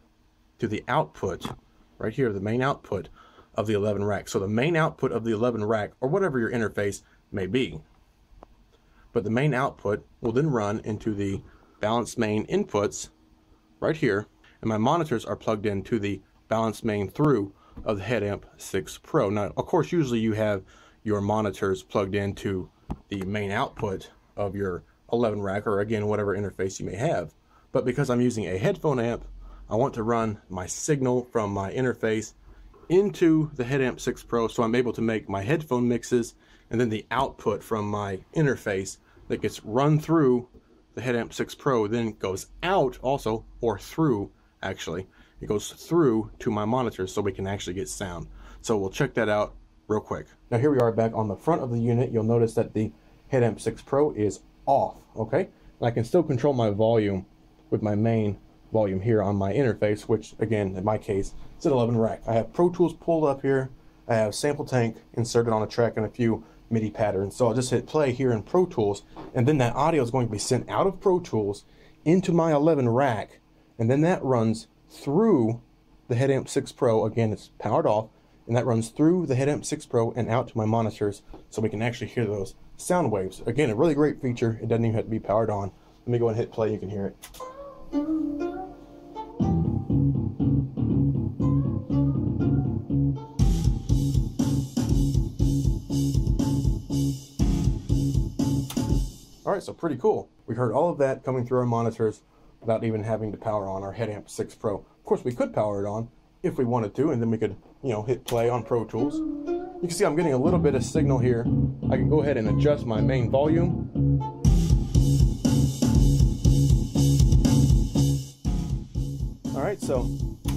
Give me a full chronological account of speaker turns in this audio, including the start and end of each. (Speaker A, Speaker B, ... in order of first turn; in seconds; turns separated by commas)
Speaker A: 0.6-7.8, Speaker A: 9.1-13.1, Speaker A: 13.8-32.4, Speaker A: 32.9-87.2, Speaker A: 99.5-109.2, Speaker A: 109.8-113.8, Speaker A: 119.5-120.1